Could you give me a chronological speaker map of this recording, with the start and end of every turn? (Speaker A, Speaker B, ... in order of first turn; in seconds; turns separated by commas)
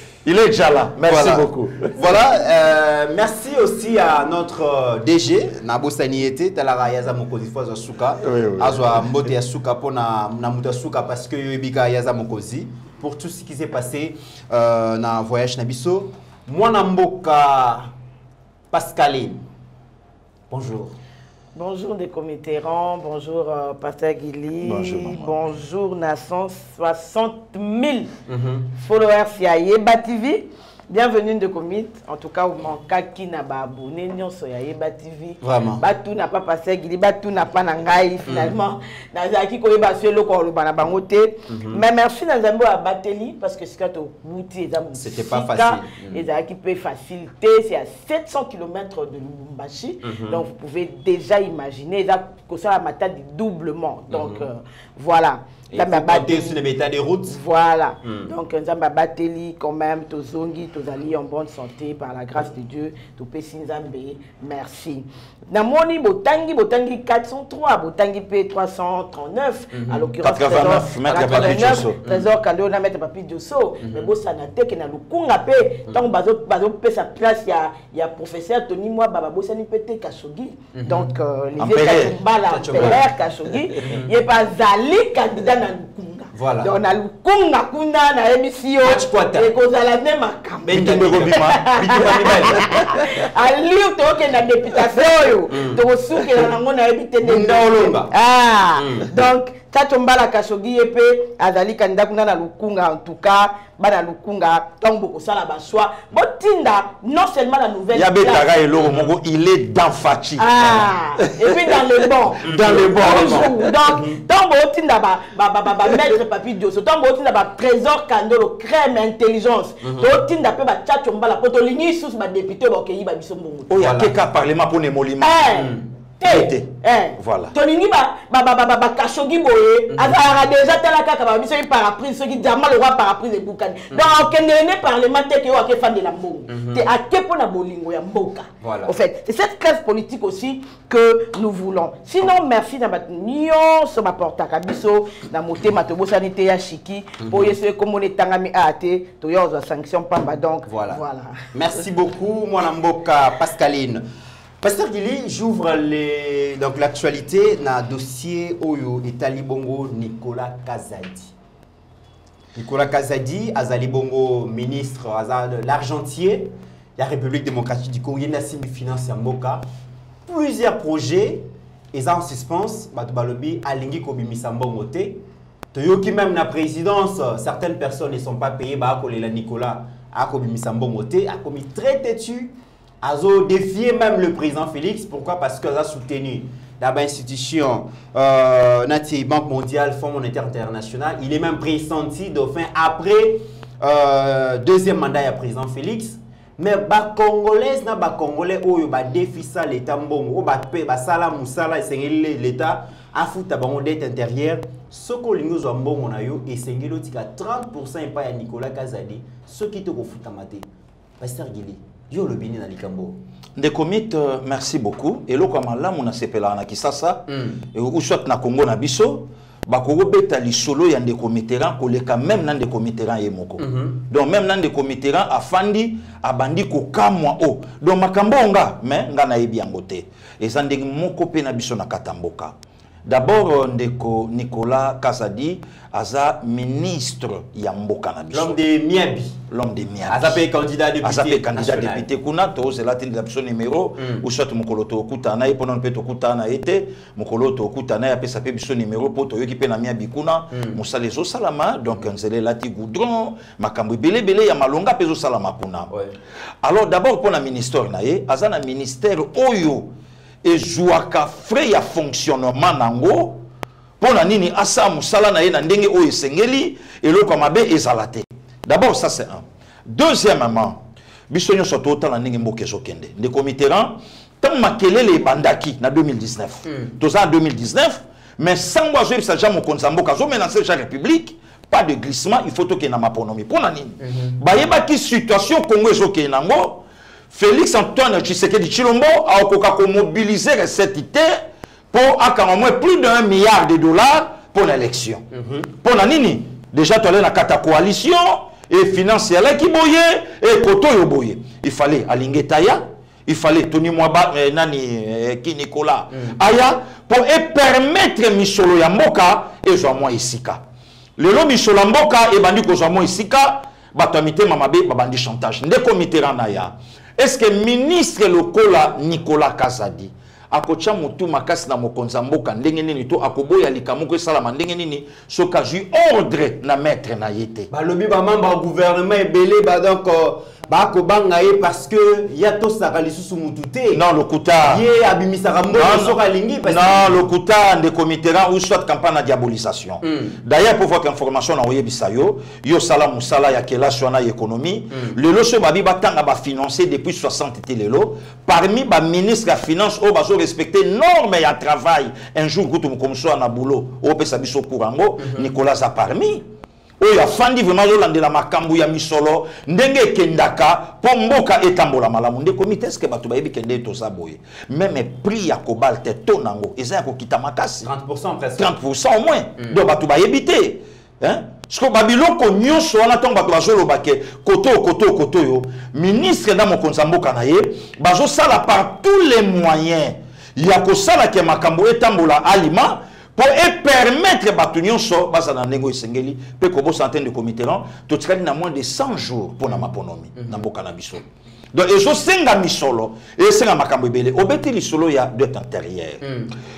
Speaker A: 0.2-2.0, Speaker B: 1.1-17.9, Speaker A: 8.2-9.1, Speaker B: 18.7-19.4, Speaker B: 20.5-20.9, Speaker C: 21.5-28.1, Speaker A: 24.6-25.4, Speaker B: 28.3-28.7, Speaker C: 28.8-56.6, Speaker B: 35.4-35.8, Speaker B: 38.3-38.5, Speaker B: 41.5-41.8, Speaker B: 45.0-46.2, Speaker B: 50.0-50.4, Speaker B: 54.1-54.5, Speaker B: 55.7-57.4, Speaker C: 57.3-108.5, Speaker B: 58.0-58.3, Speaker B: 69.7-70.1, Speaker A: 70.2-72.0, Speaker B: 71.2-71.4, Speaker B: 73.8-74.1, Speaker B: 80.7-81.1, Speaker A: 81.6-82.2, Speaker B: 82.5-83.0, Speaker B: 83.8-84.1, Speaker B: 86.3-86.7, Speaker B: 88.8-89.5, Speaker B: 90.7-93.0, Speaker A: 90.7-92.3, Speaker B: 95.5-95.8, Speaker B: 97.2-98.1, Speaker B: 98.8-99.1, Speaker A: 107.9-110.8, Speaker B: 108.8-109.1, Speaker C: 110.4-123.8, Speaker A: 112.4-113.5, Speaker B: 112.4-114.2, Speaker B: 119.8-120.2, Speaker A: 123.7-125.5, Speaker B: 123.8-124.1, Speaker C: 125.2-151.3, Speaker B: 125.5-125.9, Speaker A: 126.2-127.5, Speaker B: 136.5-136.9, Speaker B: 138.6-138.9, Speaker B: 147.2-147.6, Speaker B: 150.7-151.0, Speaker B: 151.5-154.0, Speaker B: 154.6-161.3, Speaker B: 162.5-169.6, Speaker B: 170.3-175.2, Speaker B: 175.7-210.7, Speaker B: 211.2-213.2, Speaker A: 213.6-238.6, Speaker B: 217.3-217.6, Speaker B: 223.6-224.0, Speaker B: 238.3-239.4, Speaker A: 239.5-240.4, Speaker B: 240.1-242.1, Speaker A: 241.0-255.9, Speaker B: 244.0-244.2, Speaker B: 250.5-250.8, Speaker A: 256.6-259.9, Speaker A: 260.4-263.4, Speaker A: 264.0-291.4, Speaker B: 284.0-284.4, Speaker A: 291.9-310.6, Speaker B: 295.3-295.7, Speaker A: 311.2-327.7, Speaker B: 327.7-334.0, Speaker A: 333.9-334.8, Speaker B: 334.6-337.2, Speaker A: 335.7-356.5, Speaker B: 340.0-340.4, Speaker B: 355.2-355.5, Speaker A: 357.0-367.9, Speaker B: 367.8-368.7, Speaker A: 368.6-396.4, Speaker B: 396.2-396.5